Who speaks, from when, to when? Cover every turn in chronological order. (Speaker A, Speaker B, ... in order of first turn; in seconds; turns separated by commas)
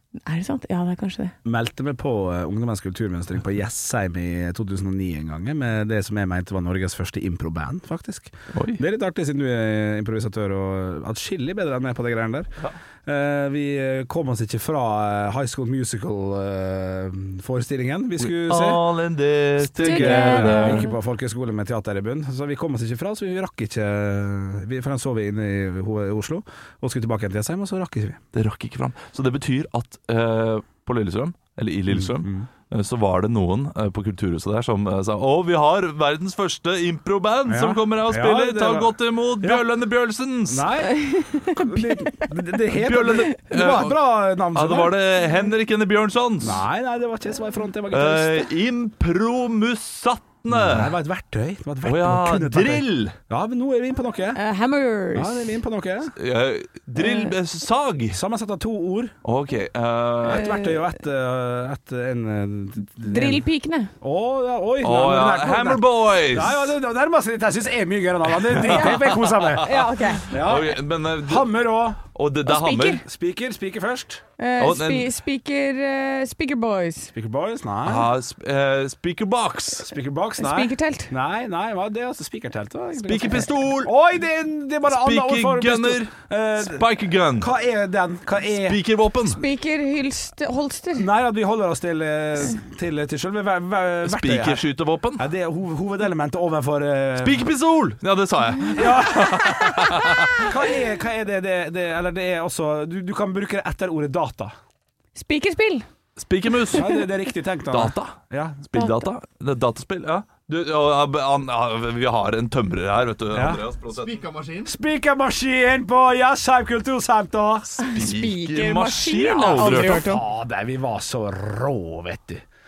Speaker A: 0.2-1.3, Speaker B: 1.4-12.5, Speaker C: 8.5-8.8, Speaker B: 13.0-18.8, Speaker C: 18.2-20.9, Speaker A: 19.7-20.9, Speaker B: 19.8-28.2, Speaker C: 28.3-40.8, Speaker B: 31.9-32.5, Speaker B: 37.5-39.6, Speaker B: 40.5-45.0, Speaker A: 40.9-42.3, Speaker C: 42.7-44.0, Speaker C: 44.5-46.6, Speaker B: 46.4-48.5, Speaker C: 47.9-50.9, Speaker B: 50.5-54.4, Speaker C: 51.8-53.2, Speaker A: 54.3-55.6, Speaker B: 55.1-56.1, Speaker C: 56.2-58.2, Speaker A: 57.0-57.3, Speaker B: 58.1-59.1, Speaker C: 59.2-60.5, Speaker B: 60.2-63.4, Speaker A: 60.3-60.8, Speaker A: 63.1-63.9, Speaker B: 64.0-69.7, Speaker C: 64.8-66.7, Speaker C: 68.5-71.6, Speaker A: 68.6-70.4, Speaker B: 70.3-72.0, Speaker C: 72.1-73.0, Speaker A: 72.4-73.0, Speaker B: 73.0-74.2, Speaker A: 74.4-77.1, Speaker C: 74.6-75.1, Speaker B: 77.1-78.1, Speaker C: 77.8-79.9, Speaker B: 79.7-86.8, Speaker A: 80.4-81.1, Speaker C: 83.0-83.9, Speaker C: 84.9-87.5, Speaker B: 87.4-88.8, Speaker C: 88.5-89.4, Speaker A: 89.2-91.1, Speaker B: 91.0-94.6, Speaker C: 94.0-95.2, Speaker B: 95.2-97.4, Speaker C: 97.2-100.5, Speaker B: 98.7-104.5, Speaker A: 105.1-105.8, Speaker C: 106.2-106.9, Speaker B: 106.7-108.7, Speaker C: 107.7-114.5, Speaker A: 108.7-109.0, Speaker B: 113.3-113.6, Speaker B: 114.5-117.8, Speaker C: 117.8-120.0, Speaker A: 117.8-120.2, Speaker B: 119.5-122.4